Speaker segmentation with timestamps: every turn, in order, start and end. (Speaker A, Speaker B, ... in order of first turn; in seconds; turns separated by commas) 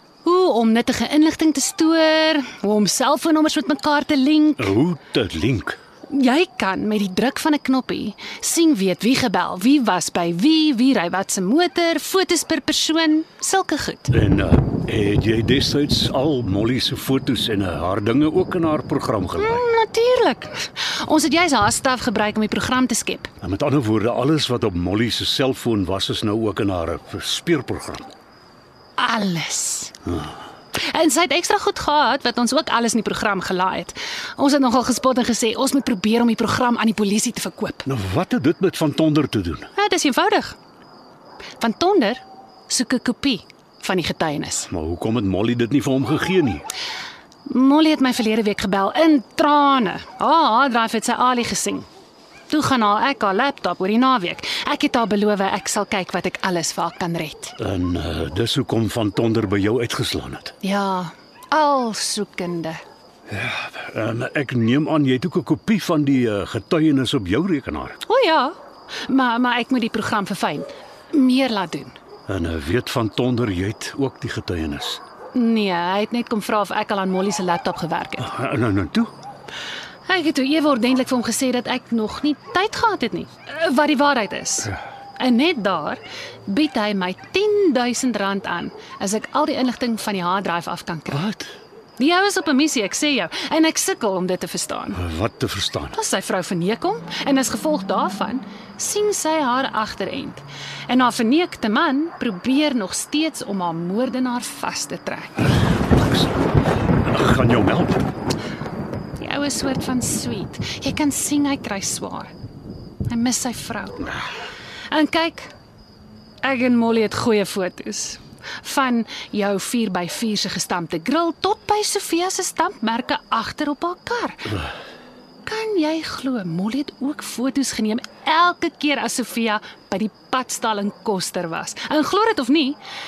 Speaker A: 0.2-4.7, Speaker B: 4.6-5.8, Speaker A: 6.1-14.1, Speaker B: 14.1-19.6, Speaker A: 19.4-23.3, Speaker B: 23.4-28.1, Speaker A: 29.0-29.9, Speaker A: 30.7-37.9, Speaker B: 37.9-39.7, Speaker A: 39.7-40.5, Speaker A: 41.6-44.7, Speaker B: 44.7-46.6, Speaker A: 47.5-51.9, Speaker A: 52.5-57.5, Speaker B: 57.6-60.5, Speaker A: 60.6-62.8, Speaker B: 63.3-68.0, Speaker A: 68.0-68.5, Speaker A: 69.1-72.0, Speaker B: 72.3-75.0, Speaker A: 75.3-78.3, Speaker B: 78.2-79.1, Speaker A: 80.1-91.2, Speaker B: 91.1-91.5, Speaker A: 92.0-95.0, Speaker B: 95.0-96.0, Speaker A: 95.9-105.5, Speaker B: 105.9-106.5, Speaker B: 107.0-108.0, Speaker A: 109.2-112.3, Speaker A: 113.1-114.0, Speaker A: 114.9-115.5, Speaker A: 116.4-124.6, Speaker A: 125.5-132.8